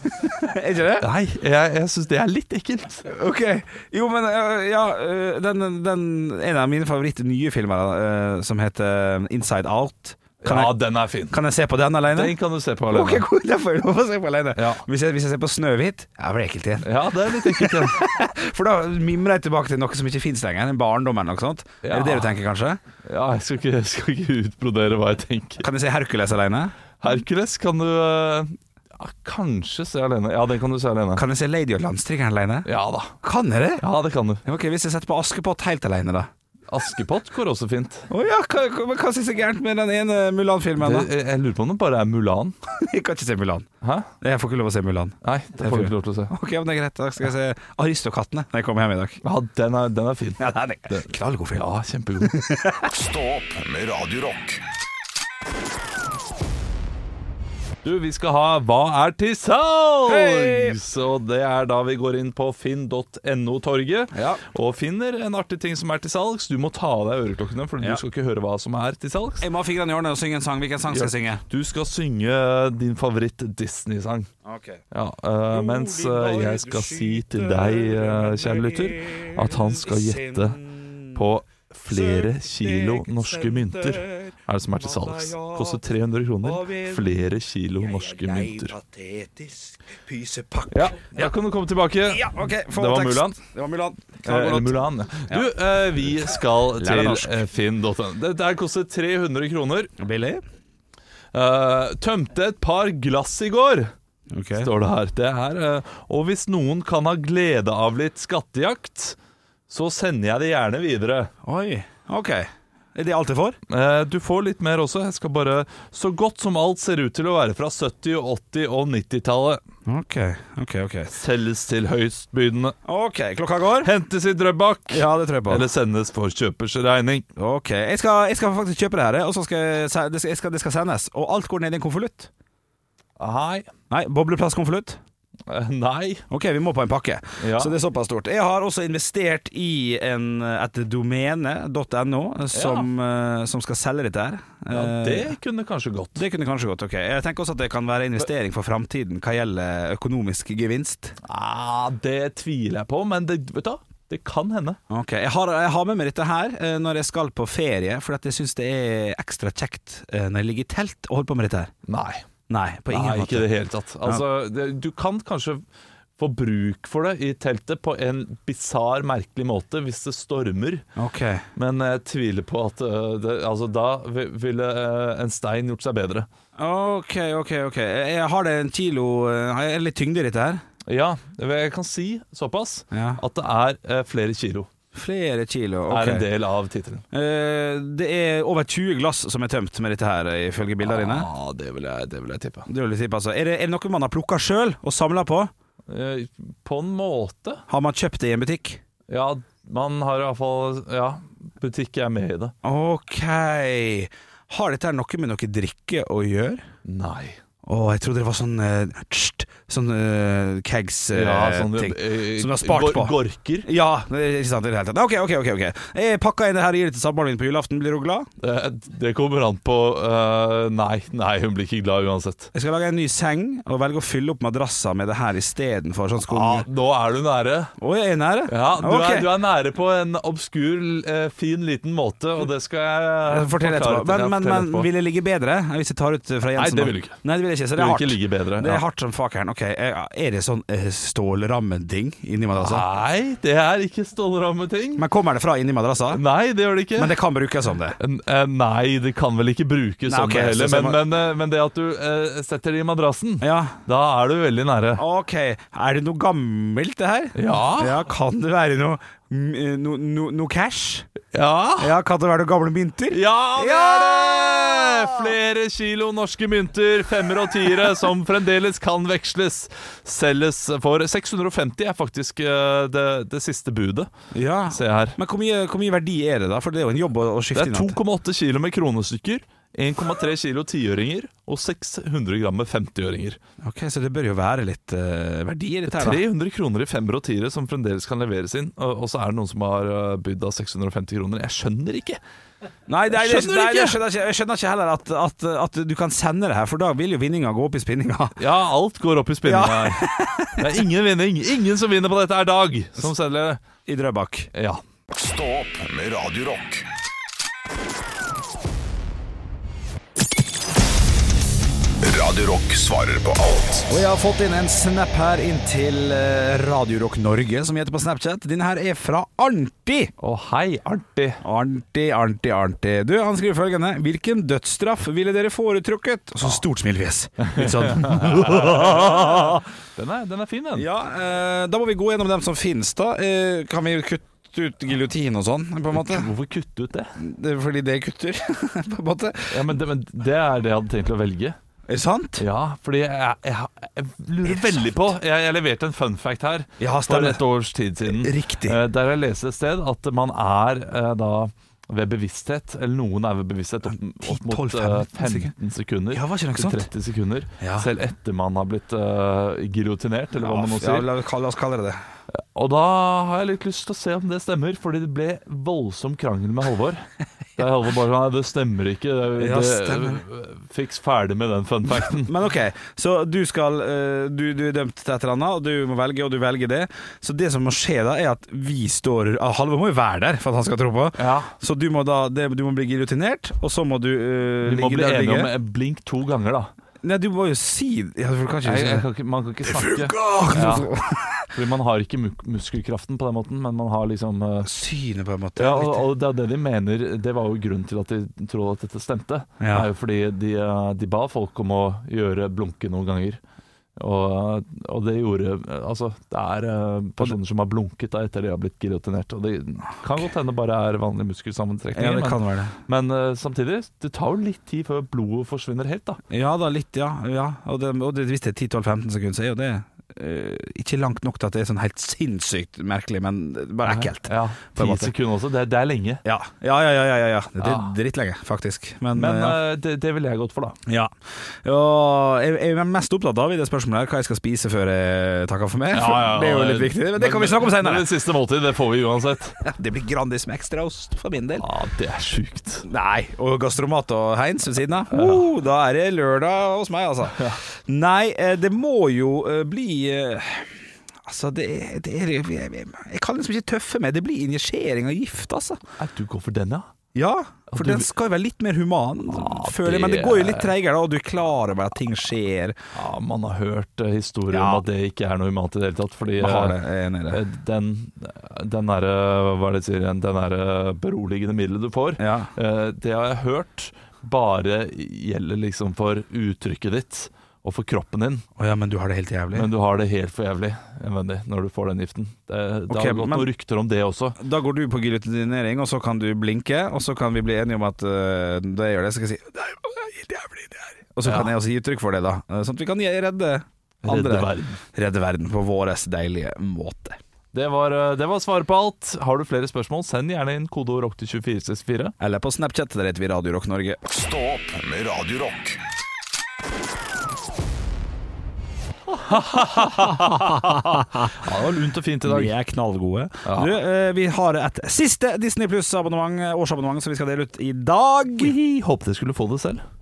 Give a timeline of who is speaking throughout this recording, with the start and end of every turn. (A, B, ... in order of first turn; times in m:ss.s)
0:00.2-0:01.1 A
0:01.0-0:03.1 B
0:03.1-0:12.3 A
0:10.4-0:11.4 B
0:12.1-0:13.2 B
0:12.9-0:22.8 A
0:14.6-0:14.8 B
0:16.8-0:18.0 B
0:21.8-0:22.3 B
0:23.0-0:25.6 B
0:25.6-0:26.7 A
0:27.0-0:31.2 B
0:31.1-0:32.7 A
0:32.6-0:33.2 B
0:33.2-0:33.8 A
0:33.8-0:34.4 B
0:34.4-0:36.3 A
0:36.7-0:38.1 B
0:38.1-0:41.1 A
0:40.8-0:42.6 B
0:42.7-0:43.7 A
0:43.8-0:44.1 B
0:44.2-0:49.2 A
0:45.2-0:46.3 B
0:49.2-0:52.3 B
0:50.4-0:51.7 A
0:52.2-0:52.9 A
0:52.9-0:54.6 C
0:57.8-1:09.4 B
1:00.1-1:00.8 A
1:04.1-1:04.4 A
1:09.4-1:11.4 A
1:10.9-1:14.3 B
1:14.4-1:14.8 A
1:14.9-1:20.6 B
1:15.5-1:21.2 A
1:21.1-1:28.7 B
1:21.9-1:25.8 A
1:26.4-1:27.1 A
1:27.8-1:31.3 A
1:30.7-1:33.4 B
1:32.0-1:35.5 A
1:34.2-1:39.9 B
1:36.8-1:37.4 A
1:40.0-1:40.4 A
1:41.3-1:43.9 B
1:44.3-1:44.7 A
1:44.6-1:49.2 B
1:49.7-1:51.3 B
1:51.4-1:53.6 A
1:53.7-1:59.6 B
1:59.8-2:01.1 A
2:01.1-2:02.8 B
2:02.8-2:03.9 A
2:03.8-2:07.3 B
2:04.9-2:05.7 A
2:07.4-2:12.3 A
2:13.2-2:13.7 B
2:13.9-2:15.0 A
2:15.5-2:16.2 B
2:16.3-2:25.3 A
2:17.4-2:17.7 B
2:22.5-2:22.9 B
2:24.7-2:26.2 B
2:26.1-2:31.2 A
2:31.2-2:34.8 B
2:34.9-2:41.7 A
2:41.9-2:42.2 B
2:42.5-2:43.5 A
2:42.9-2:45.6 B
2:46.2-2:50.8 B
2:51.0-2:51.5 A
2:51.5-2:56.3 B
2:56.6-3:00.6 A
3:00.8-3:04.7 B
3:02.9-3:03.2 A
3:04.9-3:06.3 A
3:05.9-3:07.0 B
3:07.1-3:11.3 A
3:10.8-3:12.7 B
3:12.7-3:15.5 A
3:15.9-3:17.6 B
3:17.7-3:18.8 A
3:19.1-3:22.5 B
3:22.6-3:26.6 A
3:26.8-3:27.4 B
3:27.6-3:38.3 A
3:31.1-3:33.7 B
3:38.4-3:42.5 B
3:42.5-3:46.7 A
3:46.3-3:47.7 B
3:47.8-3:49.3 A
3:48.5-3:54.9 B
3:53.3-4:02.8 A
3:56.6-3:57.2 B
3:57.8-3:58.8 B
4:02.6-4:05.0 B
4:05.0-4:06.2 A
4:06.1-4:07.2 B
4:07.0-4:08.0 A
4:08.0-4:15.0 B
4:10.1-4:11.0 A
4:13.4-4:13.8 A
4:15.0-4:21.1 A
4:17.4-4:18.0 B
4:21.3-4:21.9 B
4:21.8-4:25.3 A
4:23.1-4:34.1 B
4:34.3-4:38.0 A
4:34.7-4:35.2 B
4:37.5-4:43.4 B
4:43.6-4:46.2 A
4:45.9-4:52.2 B
4:52.9-4:58.4 A
4:53.1-4:54.0 B
4:58.4-5:03.6 B
4:59.4-5:00.8 A
5:03.8-5:04.5 A
5:04.5-5:04.8 B
5:05.1-5:06.9 C
5:12.0-5:13.9 C
5:13.9-5:20.1 A
5:20.2-5:21.4 B
5:21.4-5:29.6 A
5:27.4-5:30.9 B
5:30.8-5:36.3 A
5:35.9-5:37.1 B
5:37.2-5:39.6 A
5:39.5-5:41.6 B
5:41.9-5:42.4 A
5:42.4-6:01.1 B
5:44.4-5:44.8 A
5:46.8-5:47.4 A
5:48.0-5:48.8 A
5:54.2-5:55.5 A
5:56.1-5:56.9 A
5:57.6-5:57.9 A
6:00.3-6:02.0 A
6:02.3-6:12.3 B
6:09.4-6:10.2 A
6:12.0-6:25.5 A
6:21.2-6:21.5 B
6:24.6-6:26.7 B
6:27.0-6:29.0 A
6:28.6-6:30.9 B
6:29.6-6:31.5 A
6:31.5-6:34.7 B
6:34.6-6:36.0 A
6:35.6-6:43.4 B
6:39.6-6:39.9 A
6:44.0-6:56.2 B
6:51.9-6:52.7 A
6:56.3-7:05.1 A
7:03.8-7:06.2 B
7:06.2-7:09.6 A
7:07.6-7:07.9 B
7:09.1-7:10.8 B
7:10.8-7:11.1 A
7:11.6-7:18.1 A
7:15.9-7:19.6 B
7:19.6-7:21.6 A
7:21.6-7:22.8 B
7:22.8-7:35.8 A
7:25.1-7:25.5 B
7:27.3-7:27.6 B
7:36.0-7:36.9 B
7:37.1-7:42.8 A
7:37.7-7:38.1 B
7:39.3-7:40.7 B
7:42.9-7:58.4 B
7:44.5-7:44.8 A
7:46.4-7:47.4 A
7:52.2-7:52.5 A
7:58.6-7:59.7 A
7:59.5-8:04.4 B
8:02.9-8:03.5 A
8:04.4-8:17.2 A
8:11.2-8:11.5 B
8:14.0-8:14.8 B
8:17.5-8:22.2 B
8:22.2-8:24.0 A
8:24.1-8:25.8 C
8:29.2-8:32.5 B
8:29.7-8:31.4 A
8:32.2-8:38.5 A
8:33.4-8:33.8 B
8:38.4-8:39.8 B